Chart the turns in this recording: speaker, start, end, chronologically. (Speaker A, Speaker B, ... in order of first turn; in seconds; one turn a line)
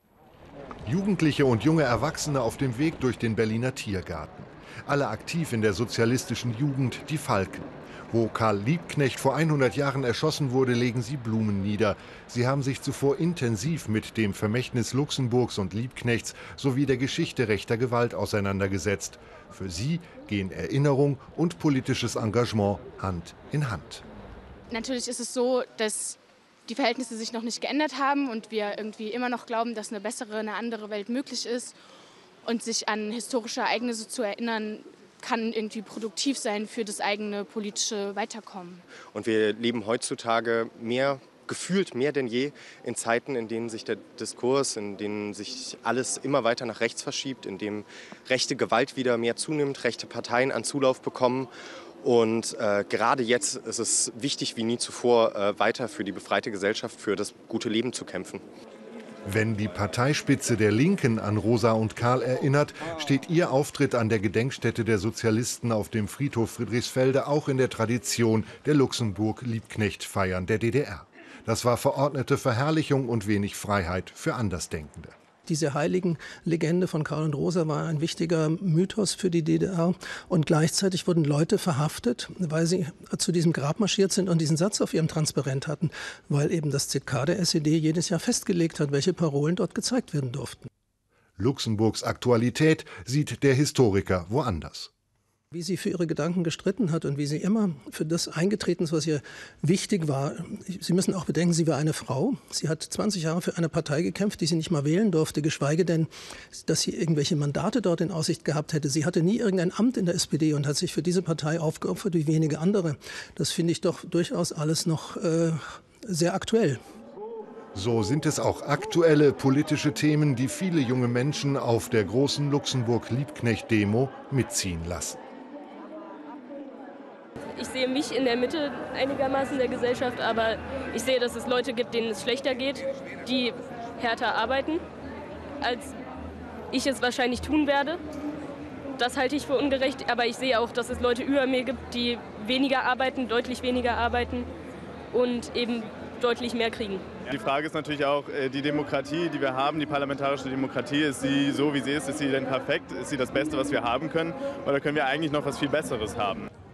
Speaker A: 0.8-24.0
Speaker B: 24.7-31.8
Speaker B: 32.4-38.8
Speaker C: 39.1-51.5
Speaker C: 52.0-58.4
Speaker A: 59.2-75.1
Speaker D: 75.5-90.7
Speaker A: 91.4-94.9
Speaker D: 95.5-116.8
Speaker A: 117.7-125.2
Speaker E: 127.6-134.8
Speaker E: 135.6-135.9
Speaker E: 136.7-138.0
Speaker E: 139.0-144.5
Speaker E: 145.1-147.1
Speaker F: 147.3-156.5